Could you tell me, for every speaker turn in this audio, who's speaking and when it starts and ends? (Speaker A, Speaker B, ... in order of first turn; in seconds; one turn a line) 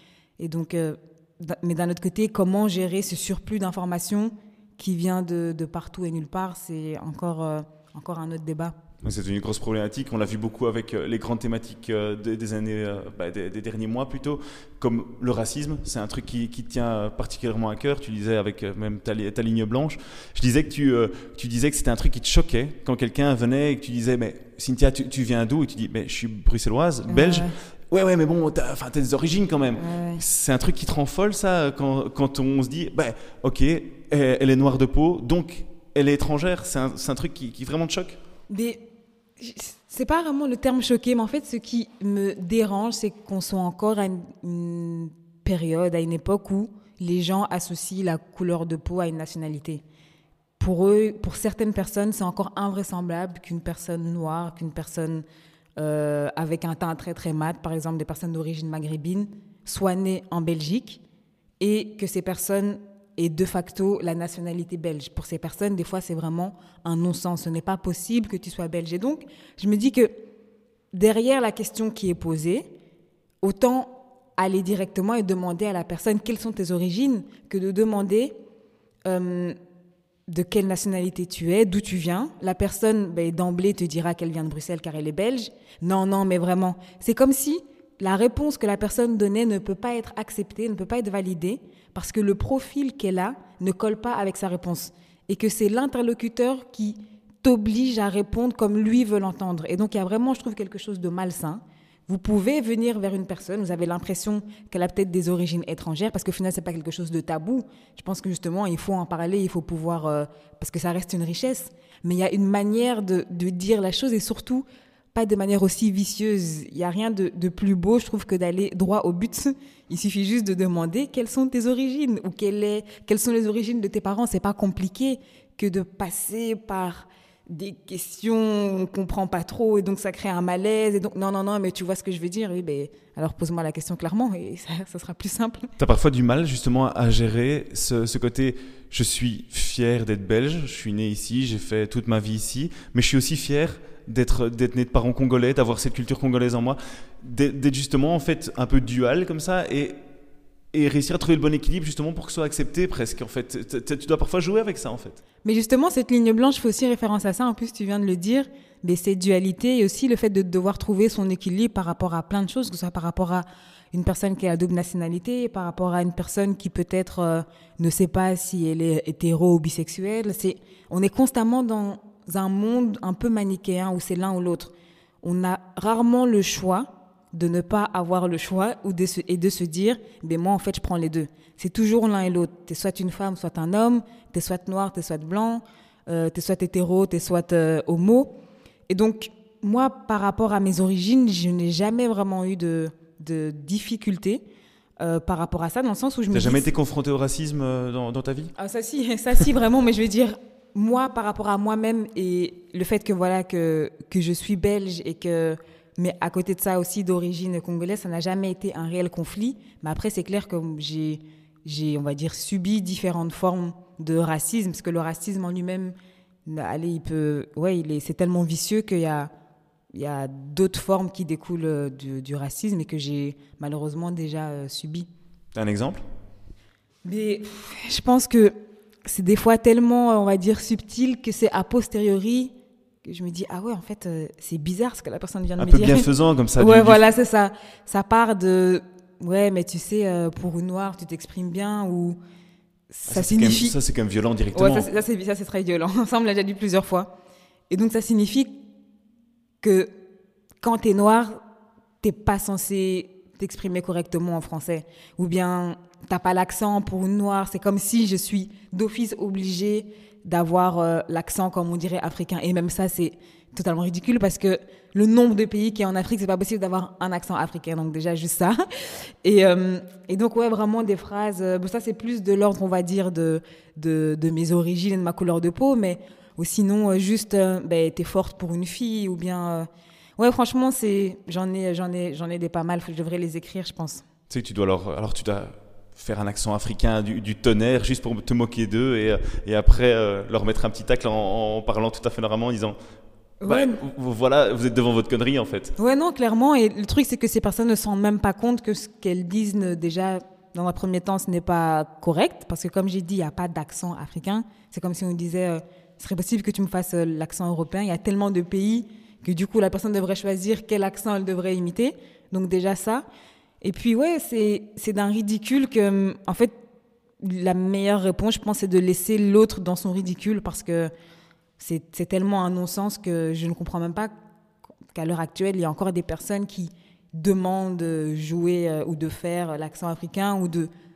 Speaker A: 0.4-8.8
Speaker B: 9.0-38.2
Speaker A: 27.1-27.6
Speaker A: 29.8-30.2
Speaker A: 38.5-38.8
Speaker A: 39.4-49.8
Speaker A: 50.6-55.2
Speaker A: 55.8-61.0
Speaker A: 61.6-70.1
Speaker A: 70.9-72.7
Speaker A: 73.4-78.4
Speaker A: 79.1-79.6
Speaker A: 80.3-135.7
Speaker B: 135.8-150.0
Speaker B: 150.7-155.2
Speaker A: 155.4-188.3
Speaker A: 188.9-194.4
Speaker A: 195.0-196.7
Speaker B: 196.3-198.5
Speaker A: 198.6-215.9
Speaker A: 216.5-219.3
Speaker A: 219.9-225.1
Speaker B: 225.6-226.0
Speaker A: 227.1-232.5
Speaker A: 233.1-236.1
Speaker B: 235.6-237.0
Speaker A: 236.6-242.2
Speaker A: 242.9-243.8
Speaker B: 243.1-244.9
Speaker A: 244.5-247.1
Speaker A: 247.7-248.6
Speaker A: 249.6-249.9
Speaker A: 250.6-251.4
Speaker A: 252.0-268.6
Speaker A: 269.2-284.0
Speaker B: 284.3-292.8
Speaker A: 293.4-293.8
Speaker B: 293.5-295.8
Speaker A: 295.8-313.1
Speaker A: 313.6-316.5
Speaker A: 317.2-320.9
Speaker A: 321.6-324.1
Speaker A: 324.9-330.7